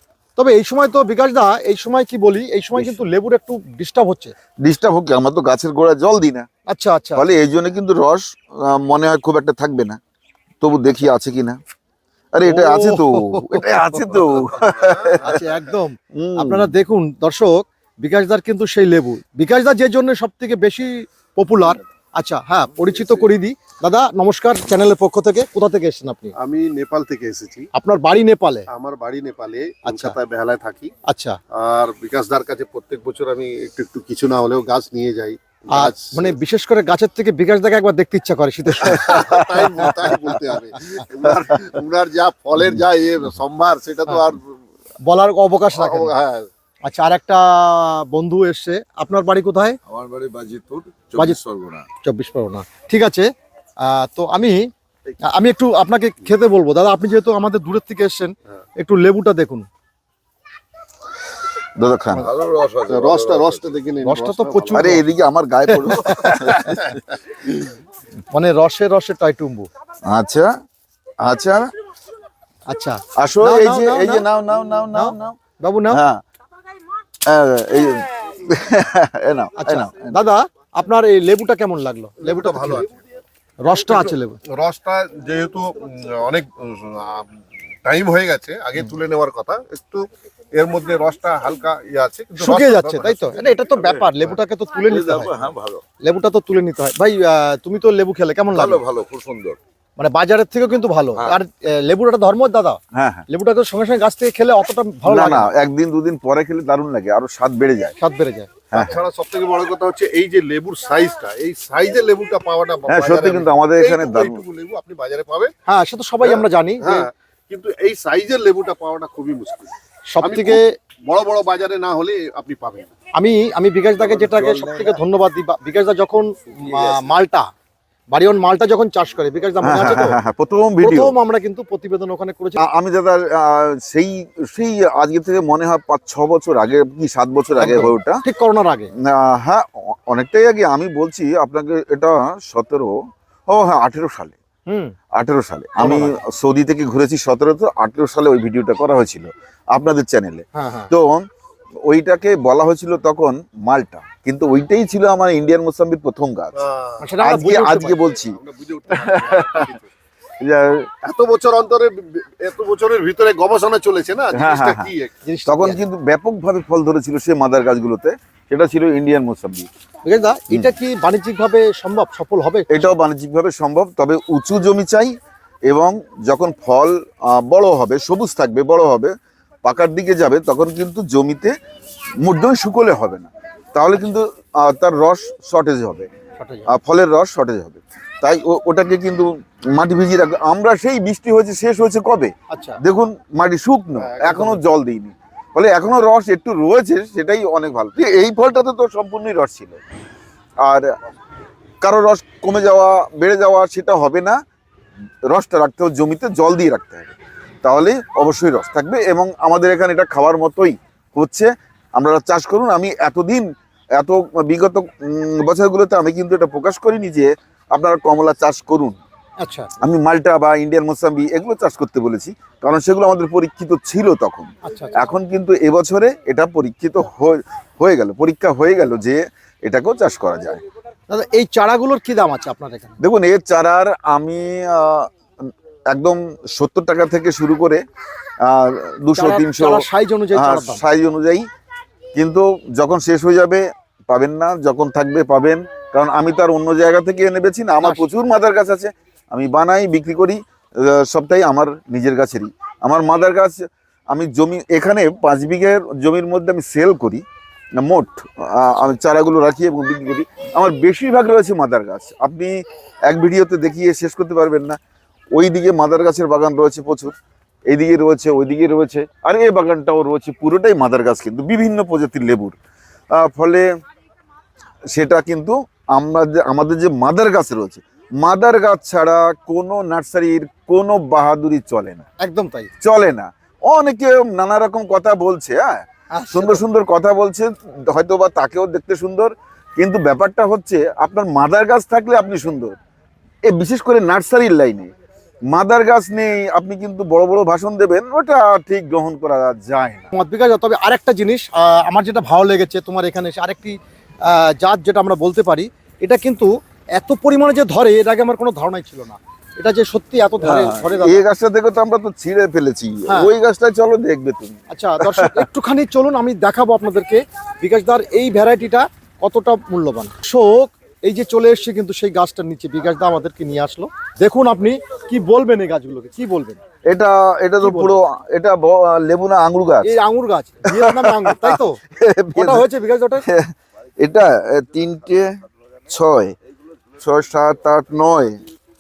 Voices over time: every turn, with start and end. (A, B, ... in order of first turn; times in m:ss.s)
0:00.4-0:04.3 A
0:02.8-0:03.0 B
0:04.6-0:06.5 B
0:06.7-0:07.3 A
0:07.2-0:10.0 B
0:10.6-0:11.6 B
0:12.3-0:15.3 B
0:12.4-0:26.3 A
0:14.9-0:15.1 C
0:16.1-0:16.8 B
0:26.4-0:27.7 C
0:27.7-0:28.7 A
0:28.7-0:30.9 C
0:29.8-0:30.2 A
0:31.1-0:31.4 A
0:31.5-0:36.3 C
0:35.7-0:39.8 A
0:38.8-0:44.6 C
0:39.1-0:40.0 B
0:45.0-0:46.1 A
0:45.7-0:46.5 C
0:46.8-0:49.8 A
0:49.9-0:51.8 D
0:52.0-0:53.3 A
0:53.8-0:54.7 A
0:55.2-0:59.7 A
1:01.8-1:02.3 B
1:02.3-1:03.7 D
1:02.4-1:04.9 C
1:04.0-1:05.0 A
1:04.7-1:06.9 B
1:05.6-1:07.0 A
1:08.3-1:09.7 A
1:10.1-1:10.5 B
1:11.2-1:11.6 B
1:12.7-1:14.2 A
1:13.2-1:15.4 B
1:14.9-1:16.0 A
1:15.9-1:16.2 B
1:17.2-1:20.2 B
1:19.6-1:22.9 A
1:22.2-1:22.9 C
1:23.6-1:24.4 A
1:24.4-1:27.3 C
1:27.8-1:34.2 C
1:32.4-1:35.4 A
1:34.8-1:35.8 D
1:36.0-1:38.8 A
1:38.5-1:39.6 D
1:40.0-1:45.5 A
1:42.9-1:43.2 B
1:45.1-1:47.9 B
1:48.0-1:48.5 A
1:48.7-1:49.0 B
1:48.7-1:55.5 C
1:52.9-1:54.4 B
1:55.7-1:57.1 A
1:56.2-2:02.9 C
2:00.1-2:00.7 A
2:03.1-2:07.5 A
2:04.1-2:05.0 C
2:06.7-2:07.1 C
2:08.1-2:10.2 A
2:09.6-2:11.1 B
2:10.8-2:12.6 A
2:12.6-2:18.2 B
2:17.6-2:18.9 A
2:19.0-2:23.0 B
2:23.5-2:24.4 B
2:24.7-2:25.0 A
2:25.1-2:31.2 B
2:25.8-2:26.1 A
2:30.5-2:30.9 A
2:31.8-2:36.5 B
2:36.6-2:37.1 C
2:37.0-2:38.0 A
2:37.2-2:38.4 B
2:38.2-2:39.9 C
2:38.9-2:39.8 B
2:40.4-2:41.0 B
2:41.0-2:45.1 C
2:44.3-2:44.9 B
2:45.2-2:45.8 A
2:45.5-2:49.7 B
2:50.0-2:53.0 A
2:52.7-2:55.1 B
2:55.7-3:01.5 B
3:02.2-3:06.1 B
3:06.4-3:06.7 A
3:06.7-3:19.8 B
3:12.5-3:12.8 A
3:14.0-3:14.5 C
3:20.6-3:20.9 B
3:21.8-3:24.4 B
3:25.3-3:27.1 B
3:27.6-3:39.0 B
3:39.4-3:39.7 A
3:39.8-3:50.6 B
3:44.6-3:45.1 A
3:51.1-3:53.0 A
3:53.0-3:57.8 B
3:58.4-4:01.5 B
3:59.2-4:00.8 A
4:02.1-4:17.2 B
4:07.8-4:08.1 A
4:17.8-4:24.8 B
4:25.4-4:27.1 B
4:27.7-4:32.5 B
4:33.1-4:33.7 B
4:34.9-4:42.0 B
4:42.2-4:42.7 A
4:42.8-4:52.8 B
4:46.1-4:46.6 A
4:53.5-4:54.9 B
4:55.5-5:00.1 B
5:00.1-5:11.2 A
5:10.4-5:15.4 B
5:13.1-5:13.3 A
5:14.7-5:26.6 A
5:26.9-5:29.9 B
5:27.6-5:28.0 A
5:29.8-5:31.8 A
5:30.7-5:32.7 B
5:32.4-5:33.2 A
5:33.2-5:35.4 B
5:35.9-5:36.4 B
5:37.0-5:38.4 B